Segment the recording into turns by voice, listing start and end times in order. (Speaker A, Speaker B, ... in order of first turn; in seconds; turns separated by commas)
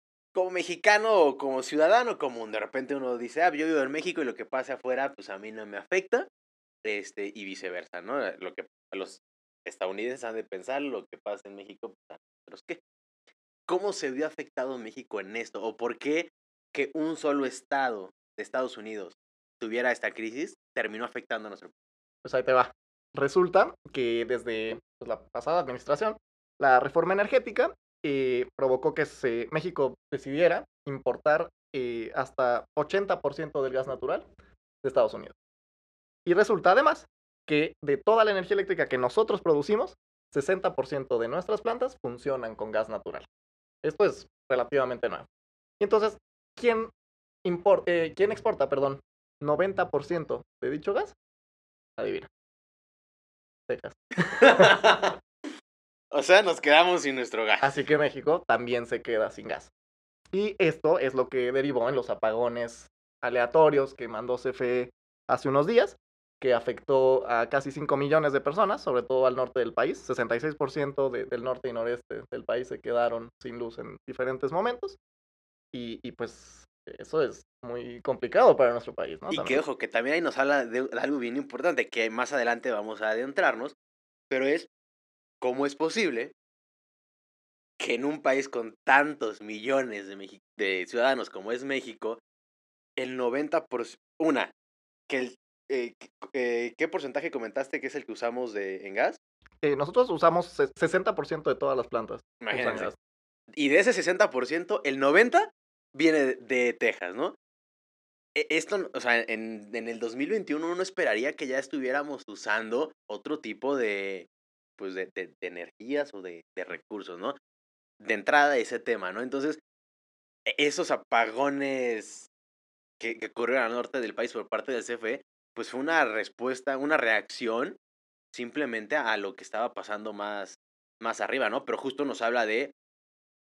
Speaker A: 0.3-6.3, Speaker A: 6.8-12.8, Speaker A: 13.7-21.7, Speaker B: 22.2-34.2, Speaker B: 34.8-35.3, Speaker B: 36.2-43.3, Speaker B: 43.8-45.2, Speaker B: 45.8-46.9, Speaker B: 47.4-51.1, Speaker B: 52.0-52.3, Speaker B: 53.7-54.8, Speaker A: 54.3-55.1, Speaker A: 56.1-57.7, Speaker B: 57.6-59.7, Speaker B: 60.3-75.0, Speaker B: 75.7-79.6, Speaker A: 79.3-83.7, Speaker A: 84.3-84.7, Speaker A: 85.4-86.3, Speaker A: 87.8-92.2, Speaker A: 93.0-94.5, Speaker A: 95.1-99.2, Speaker B: 99.6-102.9, Speaker A: 102.4-102.9, Speaker A: 103.6-107.3, Speaker A: 108.3-114.3, Speaker A: 114.8-117.4, Speaker A: 118.0-119.6, Speaker A: 120.5-122.3, Speaker A: 123.0-127.8, Speaker A: 128.3-132.7